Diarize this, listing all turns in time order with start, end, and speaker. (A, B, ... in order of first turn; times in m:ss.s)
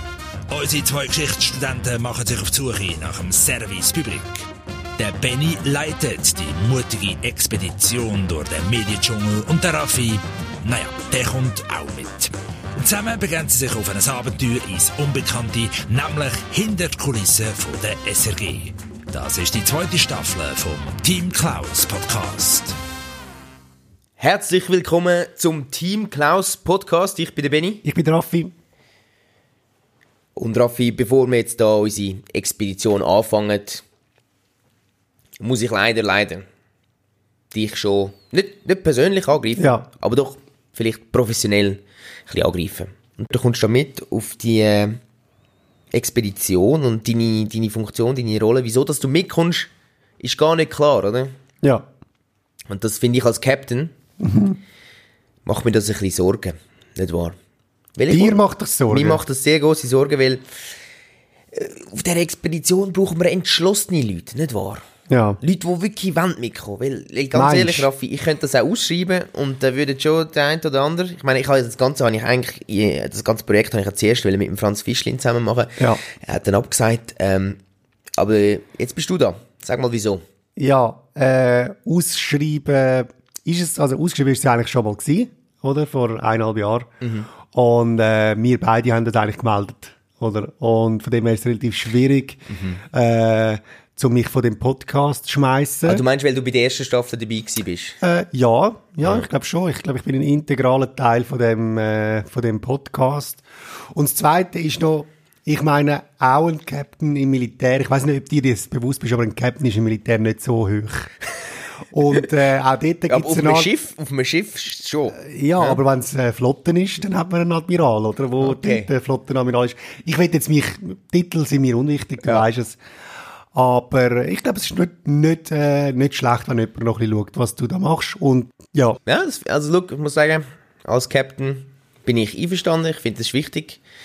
0:00.5-0:22.8 A
0:24.2-0:27.8 B
0:27.8-0:28.5 C
0:30.4-0:33.8 B
0:35.4-0:36.4 B
0:37.5-0:45.0 B
0:39.6-0:39.9 C
0:45.9-0:51.4 B
0:52.7-0:53.9 B
0:54.2-0:54.6 C
0:55.5-0:57.4 B
0:58.0-1:00.7 B
0:58.1-0:59.2 C
1:01.5-1:04.8 B
1:05.1-1:05.4 C
1:05.4-1:17.6 B
1:07.3-1:07.9 C
1:18.2-1:20.2 B
1:20.6-1:26.9 C
1:27.0-1:27.3 B
1:27.4-1:36.0 C
1:32.5-1:32.8 B
1:35.9-1:38.0 B
1:38.0-1:51.1 C
1:51.9-1:53.7 C
1:53.1-1:55.8 B
1:55.2-2:02.8 C
1:58.4-1:58.9 B
2:03.5-2:09.0 C
2:09.1-2:13.8 B